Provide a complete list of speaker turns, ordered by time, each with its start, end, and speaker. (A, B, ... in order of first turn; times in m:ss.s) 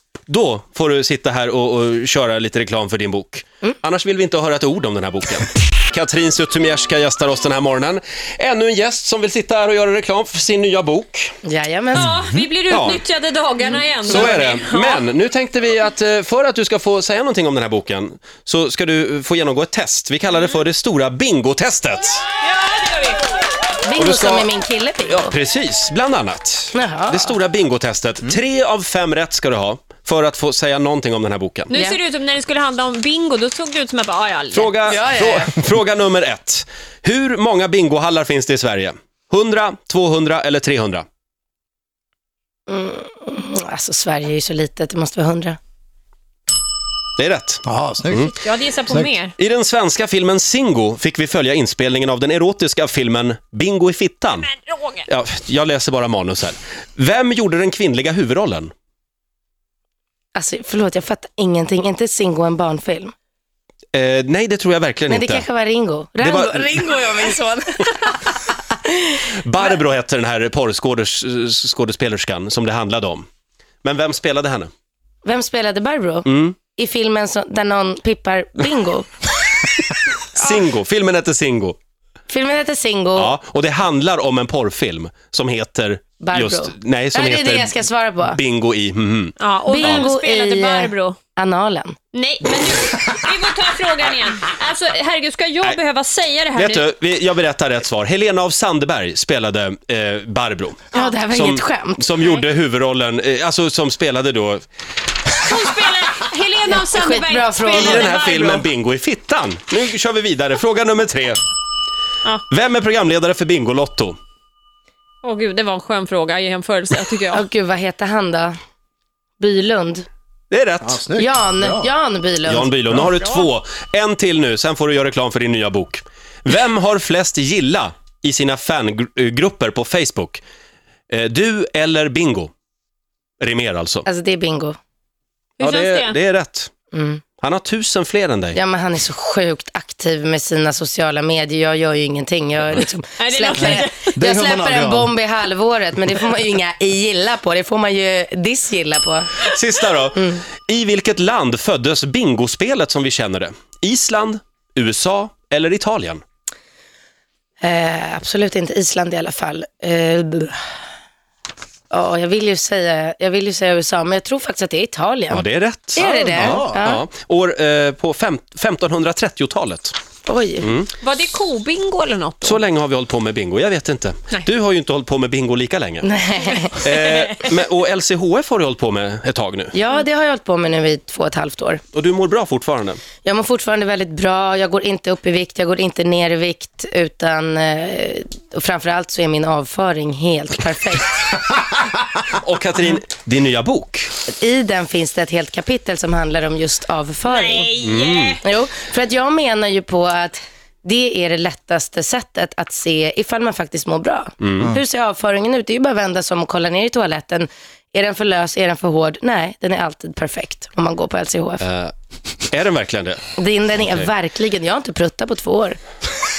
0:00.3-0:11.4 A
0:11.4-0:12.1 B
0:11.9-0:15.0 C
0:12.7-0:13.0 A
0:14.1-0:22.2 A
0:22.4-0:23.2 C
0:23.8-0:25.4 B
0:24.0-0:24.5 A
0:25.1-0:31.8 A
0:26.7-0:27.4 B
0:31.7-0:34.7 C
0:31.7-0:32.0 B
0:34.5-0:41.0 A
0:34.9-0:35.5 B
0:42.7-0:45.6 B
0:47.2-0:48.3 A
0:47.6-0:49.1 D
0:48.3-0:49.3 C
0:49.4-0:54.5 A
0:54.4-0:55.0 C
0:55.1-0:58.7 A
1:00.4-1:03.1 B
1:03.9-1:05.4 A
1:05.1-1:09.6 B
1:06.2-1:07.0 A
1:09.4-1:13.3 A
1:13.8-1:14.7 A
1:15.2-1:19.1 B
1:16.3-1:16.6 A
1:20.4-1:20.6 C
1:20.4-1:21.8 A
1:22.3-1:23.4 B
1:23.2-1:30.1 A
1:26.2-1:28.4 B
1:29.4-1:31.2 C
1:29.7-1:32.0 B
1:32.1-1:36.9 C
1:36.6-1:44.6 A
1:40.9-1:41.2 C
1:40.9-1:42.0 B
1:45.4-1:48.6 C
1:46.7-1:48.6 B
1:47.7-1:51.4 A
1:52.5-1:54.2 A
1:55.2-1:57.4 C
1:57.3-1:58.6 B
1:59.4-2:00.1 B
2:00.5-2:01.0 A
2:00.8-2:01.9 D
2:01.2-2:02.7 B
2:02.5-2:10.4 A
2:11.1-2:12.5 A
2:13.4-2:14.1 A
2:14.1-2:14.8 B
2:15.6-2:16.2 C
2:15.6-2:16.7 A
2:16.9-2:17.2 B
2:17.4-2:18.6 A
2:18.6-2:29.3 B
2:23.2-2:24.2 C
2:23.6-2:25.1 D
2:29.4-2:36.2 A
2:30.2-2:30.4 B
2:37.6-2:40.6 B
2:41.9-2:47.0 B
2:45.3-2:50.0 A
2:46.0-2:46.8 D
2:50.3-2:50.7 B
2:50.6-2:50.9 A
2:51.0-2:52.6 C
2:52.4-2:56.1 A
2:56.0-2:56.8 B
2:56.7-2:59.8 A
2:59.7-3:01.8 B
3:01.9-3:03.0 A
3:03.2-3:11.1 B
3:12.3-3:14.1 A
3:14.3-3:17.7 B
3:17.3-3:18.4 C
3:17.8-3:18.4 A
3:18.4-3:31.6 B
3:24.4-3:24.7 A
3:31.6-3:31.9 A
3:32.5-3:33.3 A
3:33.4-3:35.8 B